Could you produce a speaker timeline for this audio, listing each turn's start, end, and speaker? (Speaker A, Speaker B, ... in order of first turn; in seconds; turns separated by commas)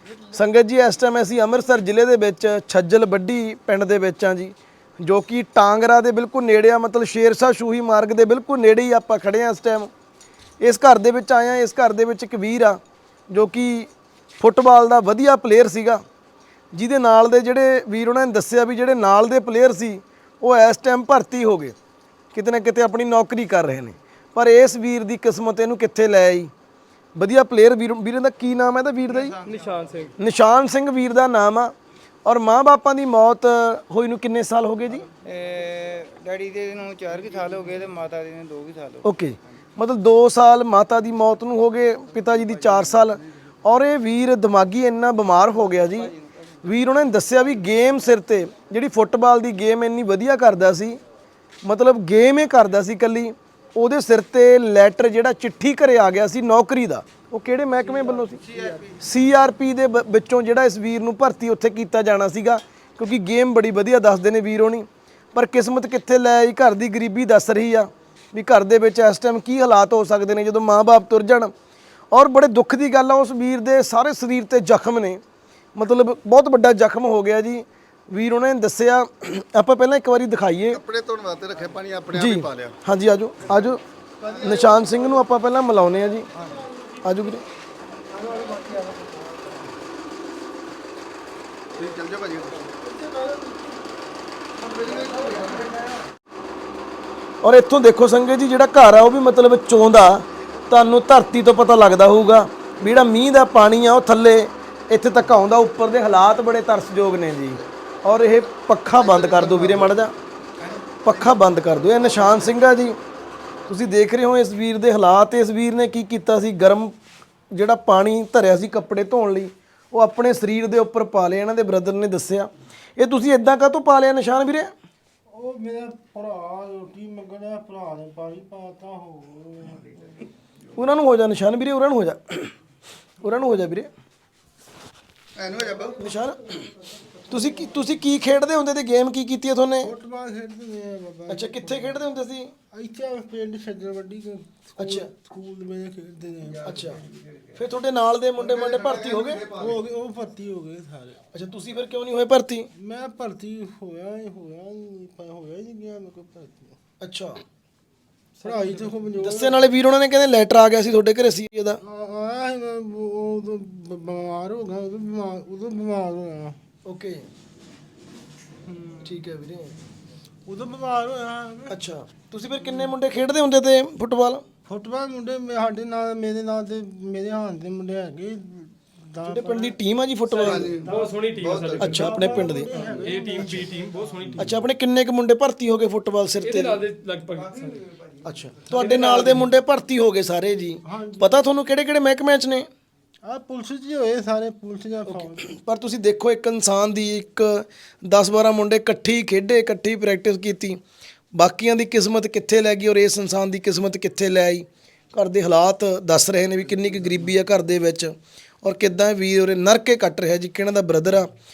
Speaker A: 0.3-9.9, Speaker A: 10.6-12.8, Speaker A: 13.3-16.0, Speaker A: 16.7-21.7, Speaker A: 22.3-26.5, Speaker A: 27.1-29.4, Speaker B: 29.1-30.1, Speaker C: 29.4-30.1, Speaker A: 30.2-31.7, Speaker A: 32.2-35.1, Speaker B: 35.1-39.0, Speaker A: 39.0-51.0, Speaker A: 51.6-71.5, Speaker B: 58.4-58.7, Speaker A: 72.1-75.2, Speaker A: 75.8-80.8, Speaker D: 80.8-82.8, Speaker A: 82.1-83.8, Speaker A: 84.3-86.3, Speaker A: 87.0-87.4, Speaker E: 88.1-89.5, Speaker D: 91.8-92.7, Speaker E: 92.7-93.8, Speaker E: 94.7-95.7, Speaker D: 94.9-95.6, Speaker A: 97.4-110.1, Speaker D: 109.1-109.9, Speaker A: 111.0-113.0, Speaker A: 113.7-116.9, Speaker A: 117.5-124.7, Speaker E: 125.3-130.2, Speaker A: 130.8-132.5, Speaker A: 133.2-133.9, Speaker D: 135.4-136.0, Speaker A: 135.9-136.6, Speaker A: 137.3-139.9, Speaker E: 139.8-142.0, Speaker A: 141.3-142.5, Speaker E: 142.7-147.0, Speaker A: 144.8-145.1, Speaker A: 146.6-147.0, Speaker A: 147.5-149.5, Speaker D: 148.5-149.7, Speaker E: 149.5-151.2, Speaker A: 151.3-152.7, Speaker E: 152.7-156.8, Speaker A: 157.0-157.4, Speaker E: 158.4-159.7, Speaker A: 159.2-161.8, Speaker E: 161.8-166.6, Speaker A: 166.8-167.2, Speaker B: 168.7-169.0, Speaker A: 169.0-169.7, Speaker E: 170.5-171.8, Speaker A: 171.7-174.4, Speaker E: 174.7-179.8, Speaker A: 179.2-180.8, Speaker D: 180.3-181.9, Speaker C: 180.6-182.1, Speaker E: 180.8-181.1, Speaker A: 181.8-182.7, Speaker E: 181.8-183.8, Speaker C: 182.9-184.6, Speaker A: 184.4-186.8, Speaker C: 186.4-187.9, Speaker B: 187.6-188.1, Speaker A: 188.2-192.7, Speaker C: 188.7-189.5, Speaker E: 190.8-191.4, Speaker E: 193.2-195.5, Speaker A: 195.2-200.8, Speaker A: 201.3-211.3